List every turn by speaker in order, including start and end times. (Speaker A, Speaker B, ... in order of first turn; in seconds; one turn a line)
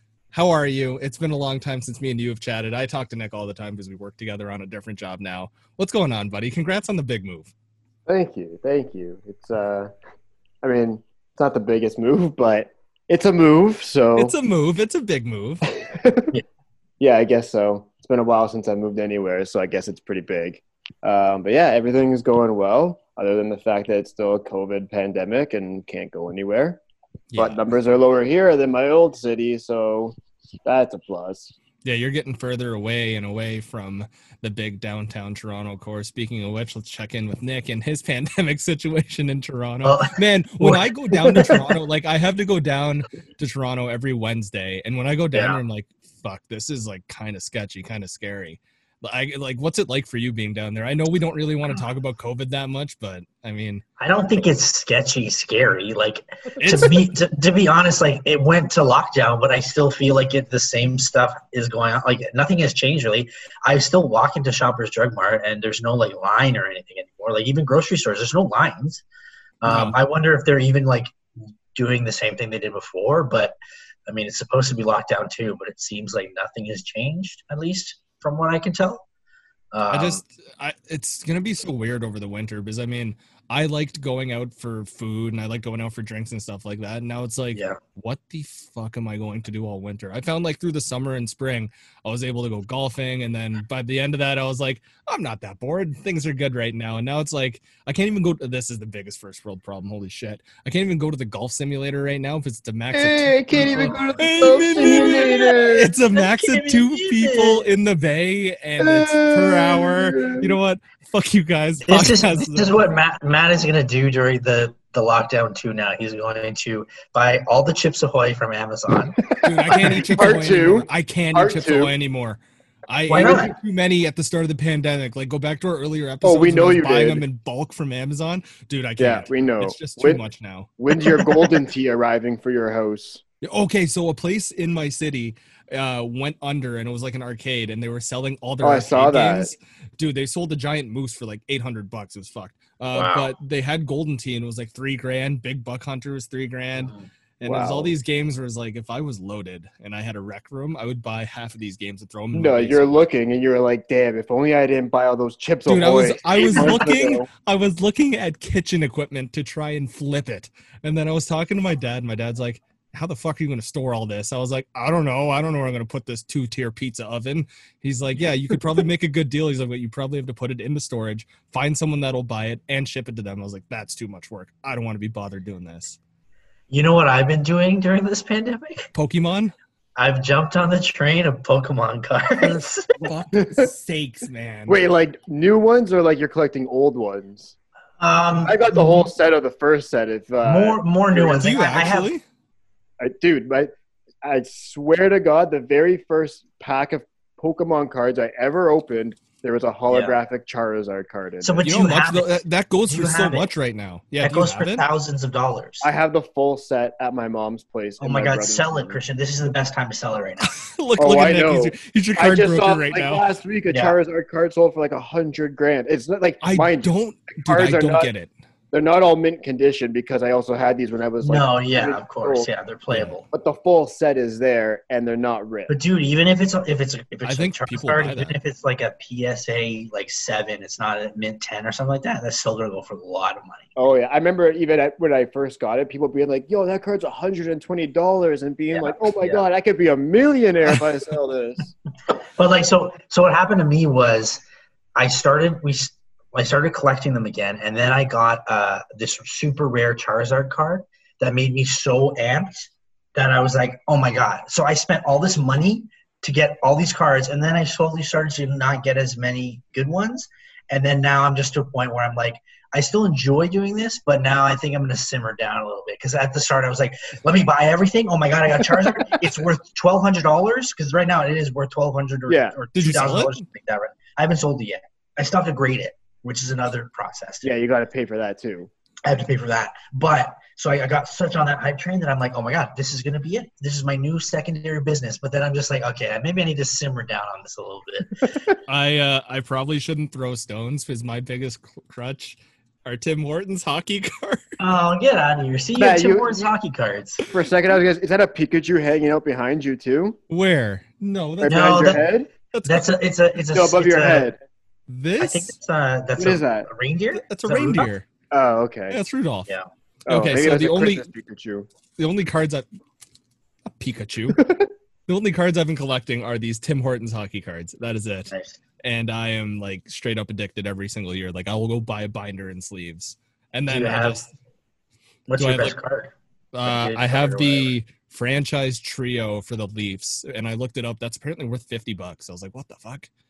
Speaker A: 0.3-7.5
Speaker B: 8.1-9.9
Speaker B: 10.6-14.3
Speaker A: 14.2-15.7
Speaker B: 15.8-16.4
Speaker B: 17.0-26.8
Speaker A: 27.3-27.6
Speaker B: 27.4-31.5
Speaker A: 31.9-53.8
Speaker C: 39.8-41.7
Speaker C: 45.3-45.6
Speaker C: 54.0-69.0
Speaker A: 56.6-57.2
Speaker C: 69.6-71.2
Speaker A: 69.7-70.0
Speaker C: 71.8-79.0
Speaker C: 79.7-80.2
Speaker A: 79.9-112.8
Speaker C: 87.5-87.8
Speaker B: 102.9-105.9
Speaker C: 103.7-104.0
Speaker C: 104.8-107.7
Speaker B: 108.8-110.5
Speaker C: 111.8-119.2
Speaker B: 119.2-121.9
Speaker A: 119.4-130.7
Speaker C: 123.1-123.5
Speaker B: 123.2-123.5
Speaker B: 126.2-127.2
Speaker B: 129.0-130.2
Speaker B: 130.8-133.2
Speaker A: 133.4-153.0
Speaker B: 138.6-139.5
Speaker C: 142.9-143.3
Speaker B: 147.4-147.9
Speaker B: 152.3-157.3
Speaker A: 155.7-176.0
Speaker C: 176.7-178.9
Speaker A: 178.9-179.5
Speaker C: 180.0-182.9
Speaker A: 182.4-184.8
Speaker B: 183.3-183.7
Speaker B: 184.7-187.6
Speaker C: 188.0-189.1
Speaker B: 188.4-191.4
Speaker C: 190.4-192.1
Speaker A: 191.3-192.2
Speaker B: 193.0-201.7
Speaker C: 199.9-200.2
Speaker C: 201.4-203.5
Speaker A: 201.6-204.9
Speaker C: 204.2-205.9
Speaker B: 205.8-209.0
Speaker C: 208.0-210.5
Speaker A: 210.5-213.3
Speaker B: 211.0-218.1
Speaker C: 213.7-214.0
Speaker A: 216.4-218.3
Speaker B: 218.7-222.5
Speaker C: 221.2-223.3
Speaker B: 223.3-225.7
Speaker C: 225.7-233.7
Speaker A: 227.2-228.4
Speaker B: 233.8-241.7
Speaker C: 238.7-239.4
Speaker C: 242.1-244.4
Speaker C: 245.0-277.5
Speaker B: 272.3-272.6
Speaker A: 272.8-273.4
Speaker B: 277.4-278.7
Speaker C: 279.1-288.4
Speaker A: 288.7-294.5
Speaker C: 294.6-297.3
Speaker B: 295.8-296.5
Speaker B: 297.3-300.2
Speaker A: 300.3-302.9
Speaker B: 301.4-302.3
Speaker C: 301.5-302.1
Speaker C: 302.6-304.3
Speaker B: 303.5-304.4
Speaker A: 304.9-305.5
Speaker C: 305.2-307.9
Speaker B: 306.2-306.7
Speaker A: 307.2-308.1
Speaker B: 308.3-309.0
Speaker A: 308.9-309.5
Speaker A: 310.1-311.1
Speaker B: 310.1-311.7
Speaker A: 312.0-312.7
Speaker A: 313.8-314.5
Speaker B: 314.4-314.7
Speaker A: 315.1-318.3
Speaker C: 318.3-318.6
Speaker A: 318.8-324.3
Speaker C: 323.7-324.2
Speaker C: 325.3-327.7
Speaker A: 325.4-325.8
Speaker A: 326.5-333.1